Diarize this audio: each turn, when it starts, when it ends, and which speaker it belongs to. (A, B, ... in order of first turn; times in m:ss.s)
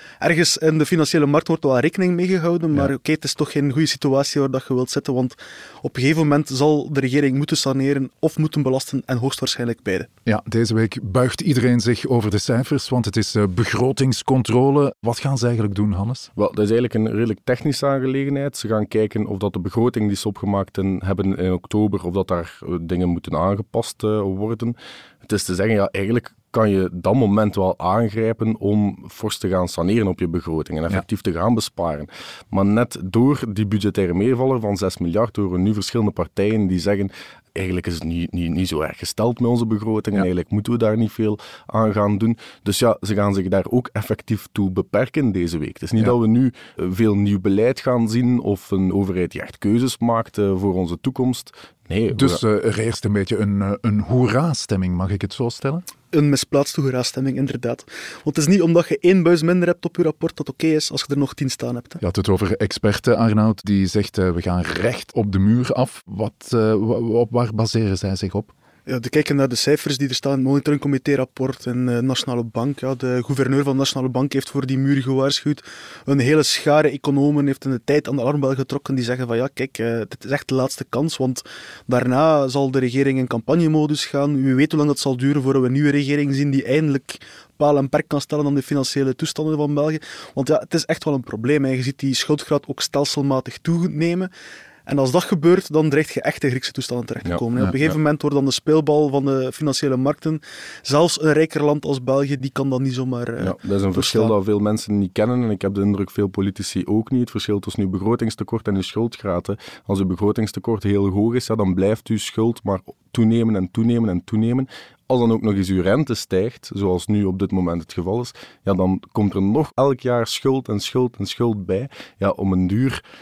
0:00.2-0:10.1 A
0:10.2-0:16.3 B
0:16.4-0:52.4 C
0:52.1-0:55.8 B
0:56.1-1:02.0 A
1:02.0-1:08.5 B
1:08.9-1:34.3 A
1:34.9-1:44.4 A
1:37.2-1:37.9 C
1:43.4-2:03.0 C